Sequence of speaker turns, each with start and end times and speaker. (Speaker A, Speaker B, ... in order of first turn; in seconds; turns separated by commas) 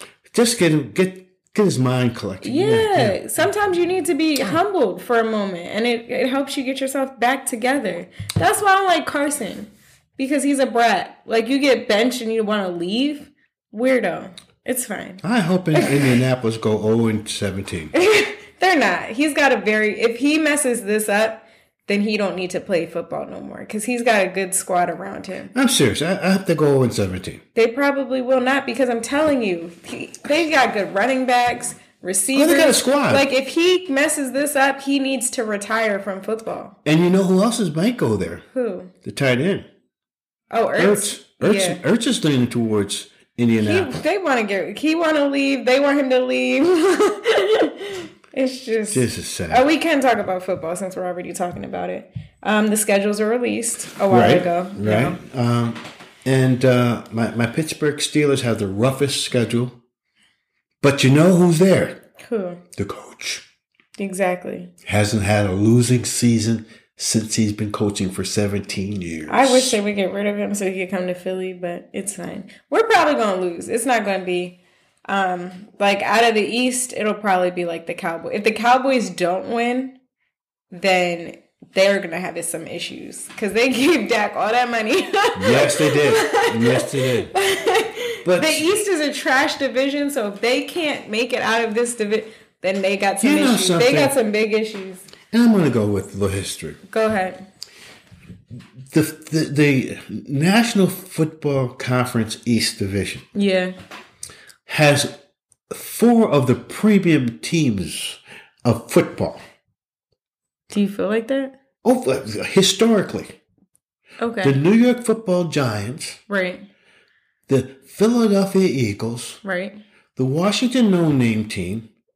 Speaker A: 0.3-3.2, Speaker B: 2.4-15.2, Speaker A: 15.2-17.9, Speaker B: 15.7-16.2, Speaker B: 17.9-25.5, Speaker A: 25.5-27.4, Speaker B: 27.5-36.8, Speaker A: 32.3-33.2, Speaker A: 36.8-38.4, Speaker B: 38.5-38.9, Speaker A: 39.0-39.7, Speaker B: 40.5-41.8, Speaker A: 40.8-44.0, Speaker B: 43.6-55.2, Speaker A: 48.9-49.7, Speaker A: 54.1-59.8, Speaker A: 60.8-62.0, Speaker B: 62.2-62.6, Speaker A: 62.8-63.4, Speaker B: 64.0-64.7, Speaker A: 64.8-69.8, Speaker B: 69.3-80.0, Speaker B: 80.7-95.0, Speaker A: 85.3-87.3, Speaker A: 88.2-88.6, Speaker A: 93.2-94.1, Speaker A: 95.3-96.8, Speaker B: 96.9-97.4, Speaker A: 98.9-103.2, Speaker B: 103.3-103.7, Speaker A: 104.7-105.1, Speaker A: 105.7-109.4, Speaker B: 110.7-111.5, Speaker A: 111.8-113.4, Speaker B: 114.2-114.6, Speaker A: 114.4-116.2, Speaker B: 116.3-116.7, Speaker A: 117.5-119.4, Speaker B: 119.4-119.8, Speaker A: 120.2-121.9